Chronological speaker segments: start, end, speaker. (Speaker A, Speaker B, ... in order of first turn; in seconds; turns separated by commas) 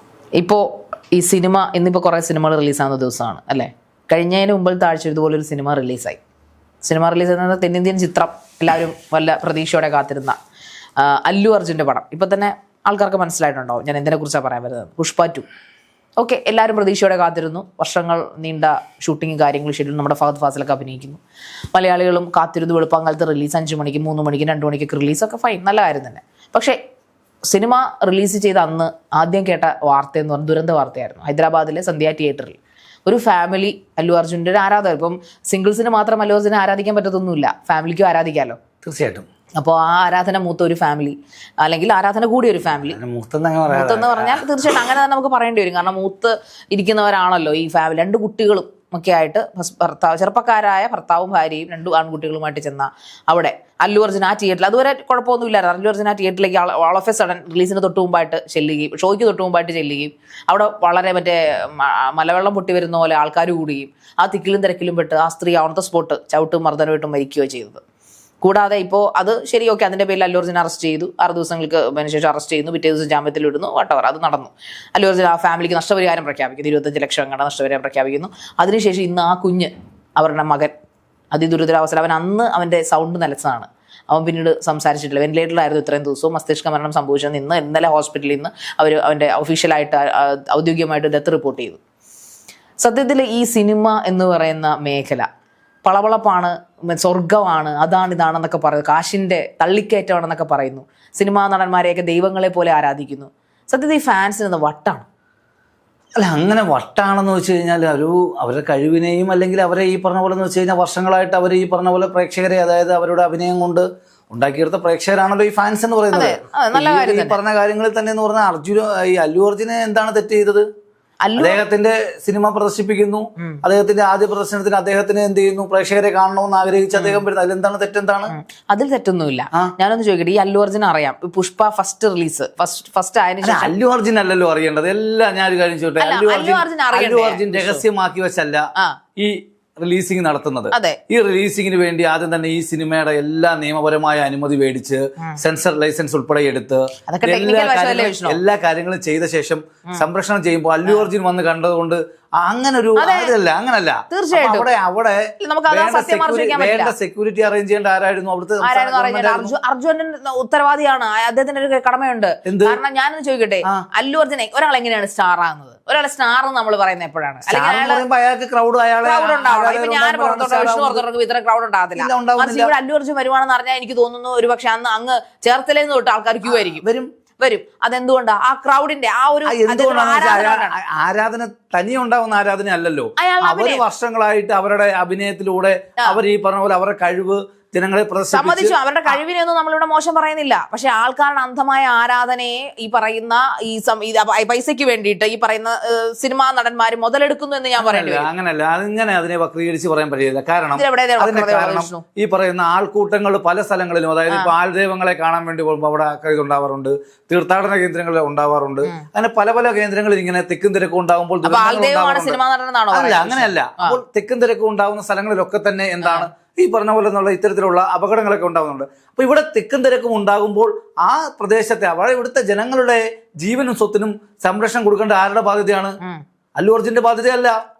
Speaker A: 0.4-6.2, Speaker A: 6.8-10.4, Speaker A: 11.0-15.4, Speaker A: 16.2-21.2, Speaker A: 21.7-26.8, Speaker A: 27.5-38.6, Speaker B: 38.8-39.3, Speaker A: 39.6-43.0, Speaker B: 42.9-44.4, Speaker A: 43.7-67.8, Speaker A: 68.4-80.7, Speaker A: 81.3-91.8, Speaker A: 92.8-95.3, Speaker A: 95.8-105.0, Speaker B: 106.2-120.7, Speaker A: 116.1-117.4, Speaker A: 121.2-121.6, Speaker B: 121.4-128.3, Speaker A: 126.9-127.2, Speaker A: 128.3-133.7, Speaker B: 133.4-138.6, Speaker A: 136.0-137.8, Speaker B: 139.2-159.5, Speaker A: 140.7-141.0, Speaker A: 147.1-148.4, Speaker A: 152.9-153.3, Speaker A: 154.1-154.7, Speaker A: 155.4-156.9, Speaker A: 158.6-168.0, Speaker B: 162.4-162.8, Speaker B: 167.5-171.0, Speaker A: 169.0-176.8, Speaker B: 172.0-172.7, Speaker B: 176.4-177.1, Speaker A: 177.4-180.7, Speaker B: 179.5-189.2, Speaker A: 183.2-183.8, Speaker A: 188.3-198.3, Speaker B: 197.8-212.4, Speaker A: 200.7-202.0, Speaker A: 211.4-214.0, Speaker B: 212.9-225.9, Speaker A: 216.0-216.3, Speaker B: 226.6-227.6